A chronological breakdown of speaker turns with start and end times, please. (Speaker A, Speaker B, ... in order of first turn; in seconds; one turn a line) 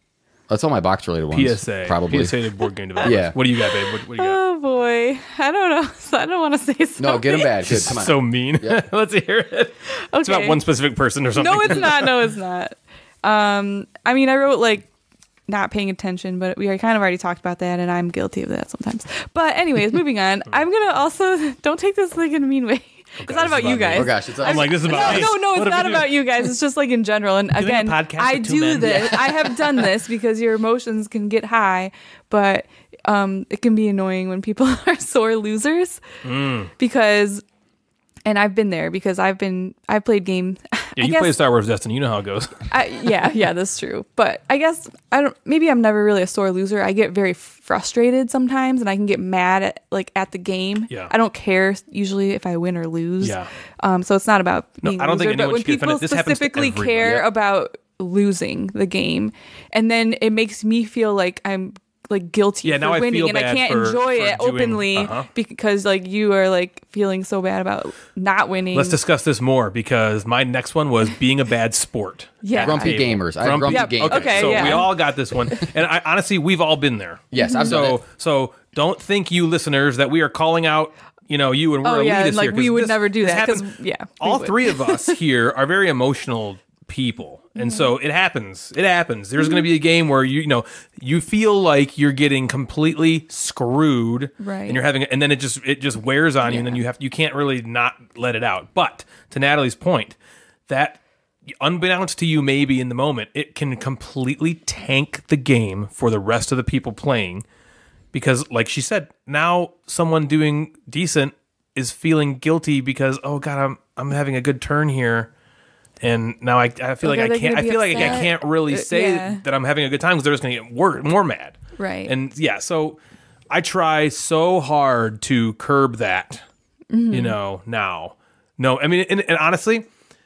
Speaker A: 0.5-2.4
Speaker B: 1.3-4.4
Speaker A: 3.0-3.4
Speaker C: 3.8-7.6
Speaker A: 7.0-8.8
Speaker B: 7.6-12.2
Speaker C: 9.9-10.6
Speaker C: 11.3-14.9
Speaker C: 15.5-36.0
Speaker B: 23.2-26.1
Speaker A: 23.9-25.3
Speaker B: 27.6-29.8
Speaker B: 36.2-36.7
Speaker C: 36.8-37.4
Speaker C: 38.2-41.4
Speaker B: 41.0-42.7
Speaker C: 42.7-69.0
Speaker B: 53.2-53.5
Speaker B: 54.8-57.2
Speaker B: 62.6-65.3
Speaker B: 68.7-83.7
Speaker C: 72.4-74.9
Speaker A: 72.5-74.9
Speaker A: 77.3-78.0
Speaker C: 77.4-77.8
Speaker C: 81.8-85.1
Speaker B: 84.2-101.0
Speaker C: 87.5-87.9
Speaker C: 94.4-94.8
Speaker C: 96.4-96.8
Speaker B: 101.6-107.4
Speaker B: 108.1-115.3
Speaker B: 116.0-123.0
Speaker C: 117.0-119.4
Speaker C: 121.8-122.1
Speaker B: 123.5-126.4
Speaker C: 126.9-127.4
Speaker B: 127.1-129.9